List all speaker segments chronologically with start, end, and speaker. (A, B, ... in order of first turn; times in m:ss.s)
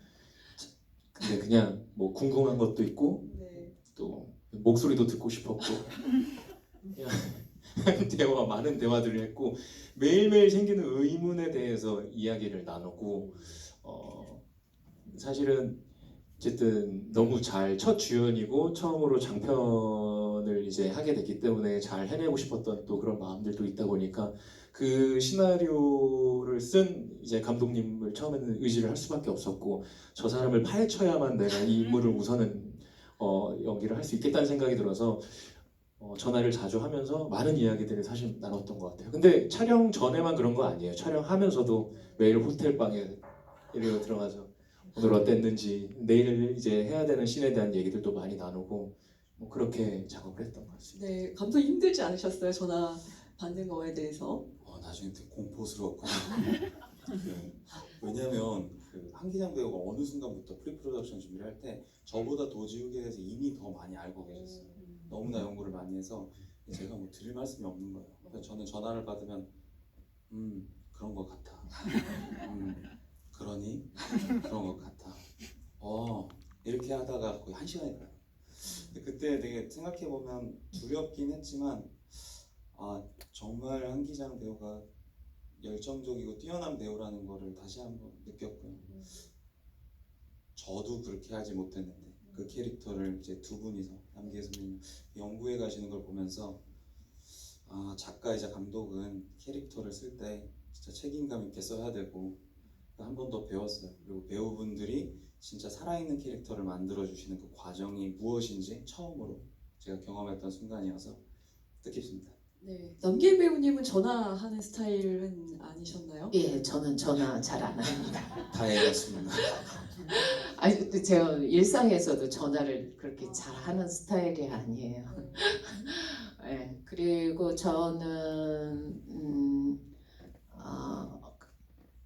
0:00.6-0:06.1 A
0:03.2-0:03.8 B
0:06.9-0:14.4 A
0:15.1-0:15.8 A
0:16.4-0:51.0 A
0:50.9-0:54.4 B
0:54.6-1:09.5 C
1:04.2-1:05.1 B
1:08.2-1:08.5 B
1:10.3-1:11.8 C
1:12.4-1:15.2 C
1:15.8-1:24.9 C
1:18.6-1:18.9 B
1:25.5-1:29.2 C
1:28.8-1:29.2 B
1:30.5-1:36.6 C
1:32.2-1:32.6 B
1:37.3-1:42.4 C
1:43.0-1:51.2 C
1:51.8-1:52.3 C
1:52.6-1:56.3 B
1:56.3-1:58.8 D
1:58.4-1:59.8 C
1:59.5-2:09.8 D
2:05.1-2:05.4 B
2:10.5-2:11.4 D